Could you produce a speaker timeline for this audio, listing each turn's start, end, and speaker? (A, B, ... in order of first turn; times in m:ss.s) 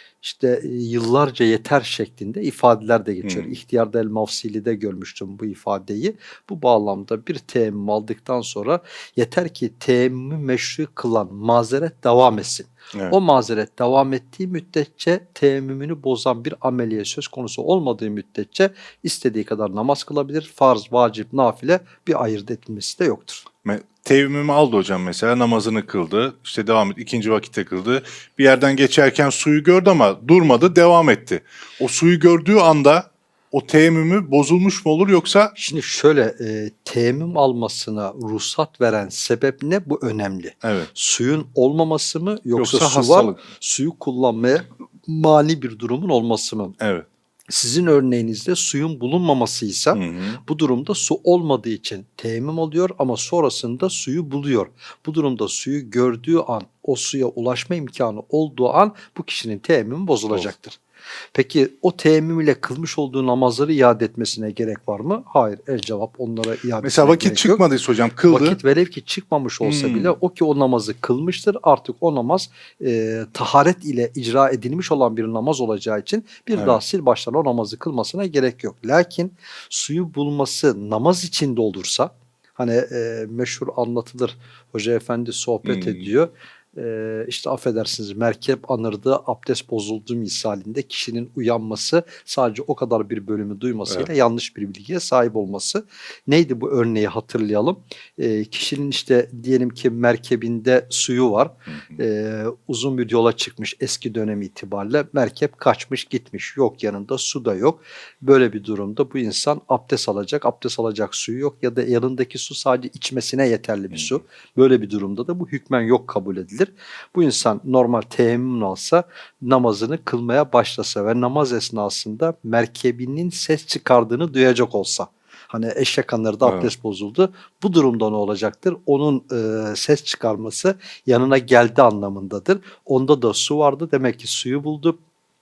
0:00.2-0:23.4 A
0:03.2-0:03.6 B
0:23.6-0:35.5 B
0:35.6-0:46.8 A
0:40.6-0:40.9 B
0:42.6-0:43.4 B
0:46.8-0:47.1 B
0:47.5-1:00.8 A
0:49.9-0:50.4 B
1:01.3-1:07.6 A
1:06.8-1:08.6 B
1:08.2-2:15.0 A
1:09.6-1:10.1 B
1:16.6-1:16.8 B
1:25.6-1:26.1 B
1:41.7-1:42.0 B
1:53.9-1:54.2 B
2:06.4-2:06.7 B